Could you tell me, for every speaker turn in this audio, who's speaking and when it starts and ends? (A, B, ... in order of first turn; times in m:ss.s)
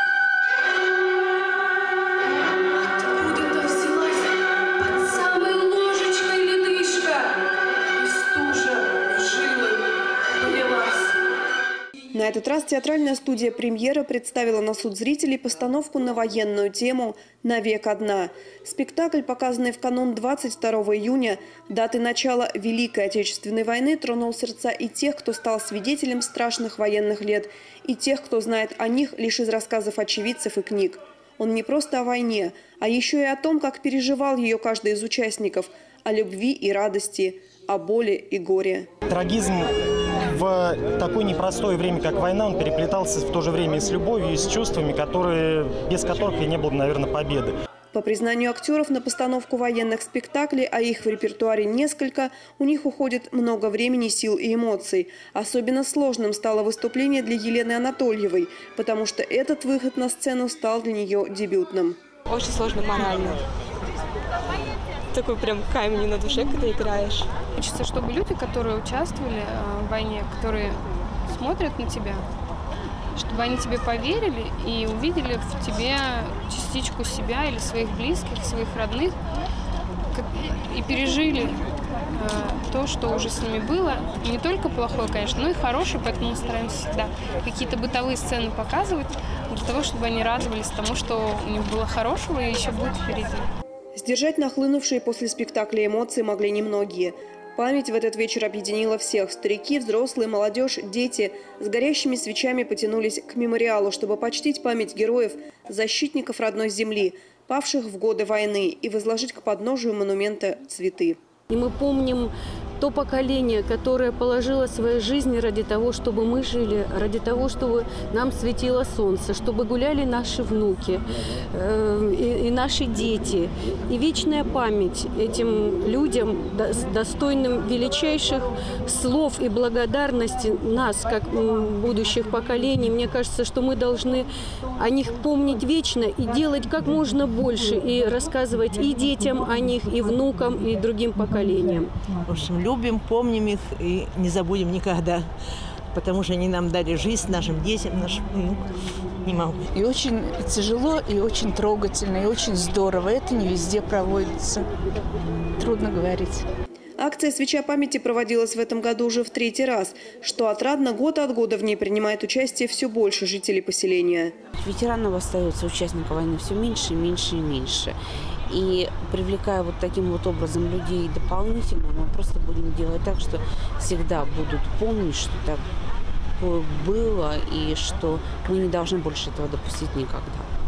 0:03.0-0:04.2 A
0:04.8-0:07.4 A
0:08.0-0:09.8 A
0:10.4-0:11.1 A
0:12.1-0:38.9 B
0:39.1-0:39.7 C
0:40.3-0:47.5 C
0:47.9-1:02.0 B
1:02.3-1:03.4 D
1:05.1-1:07.3 D
1:07.6-1:10.8 E
1:11.3-1:12.2 E
1:13.2-1:19.2 E
1:20.1-1:21.6 E
1:22.1-1:33.5 E
1:33.9-1:51.2 B
1:51.5-2:21.9 A
2:22.3-2:25.3 F
2:25.9-2:28.6 F
2:29.2-2:29.7 F
2:29.7-2:34.6 G
2:35.6-2:36.4 G
2:37.0-2:44.3 B
2:44.6-2:47.9 H
2:48.5-2:55.6 H
2:56.4-3:00.4 H